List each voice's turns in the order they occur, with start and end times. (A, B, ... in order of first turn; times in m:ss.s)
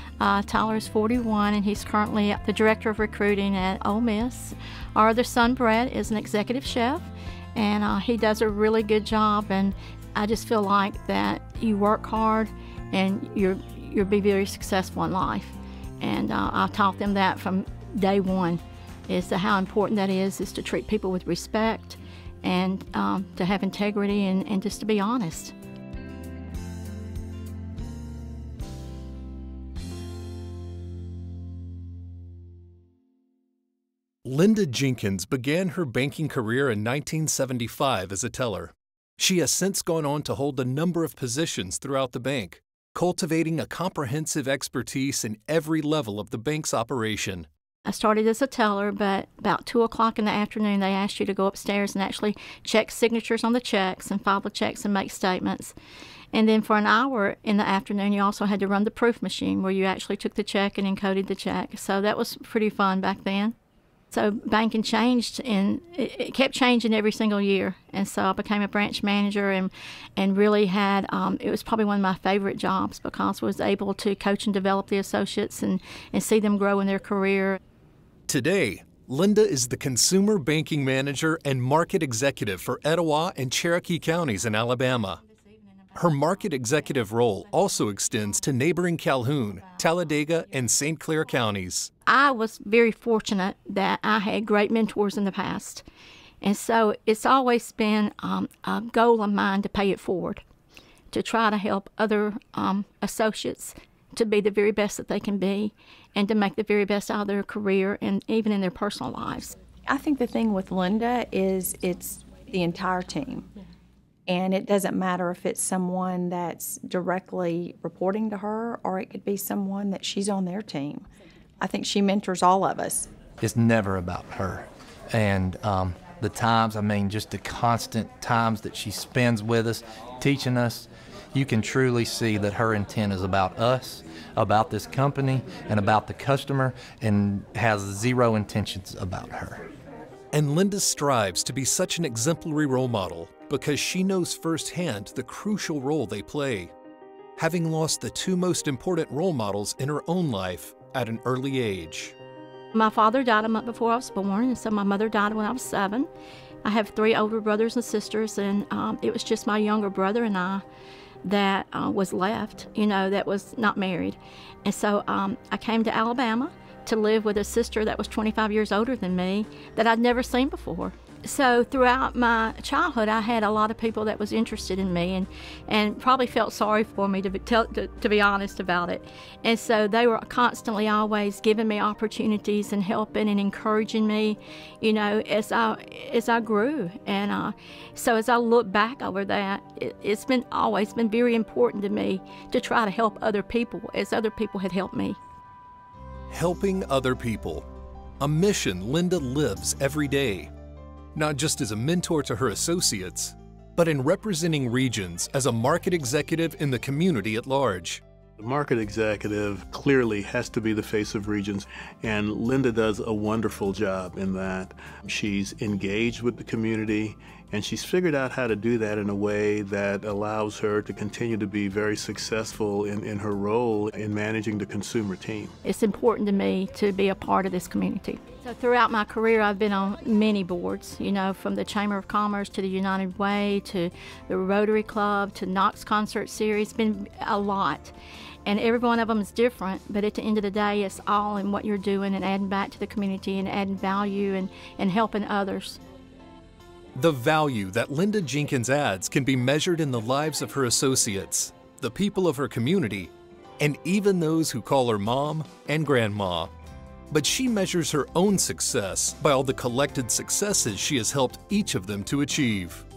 0:00.2-0:25.5 A
0:34.2-0:47.5 B
0:47.8-0:55.7 A
0:56.3-1:03.6 A
1:04.1-1:17.6 A
1:18.3-1:25.2 B
1:25.9-1:31.9 B
1:32.1-1:35.8 A
1:36.4-1:40.4 A
1:41.1-1:49.6 A
1:49.9-1:53.4 C
1:54.3-2:01.1 C
2:01.6-2:03.1 C
2:03.4-2:19.7 D
2:20.3-2:26.7 B
2:27.4-2:32.1 B
2:32.7-2:36.1 A
2:36.6-2:40.6 A
2:41.2-3:15.2 A
3:16.3-3:17.7 B
3:18.2-3:20.5 B
3:21.2-3:28.0 B
3:28.4-3:45.5 E
3:45.6-3:57.9 A
3:58.5-4:05.8 A
4:07.0-4:16.5 B
4:17.1-4:22.8 B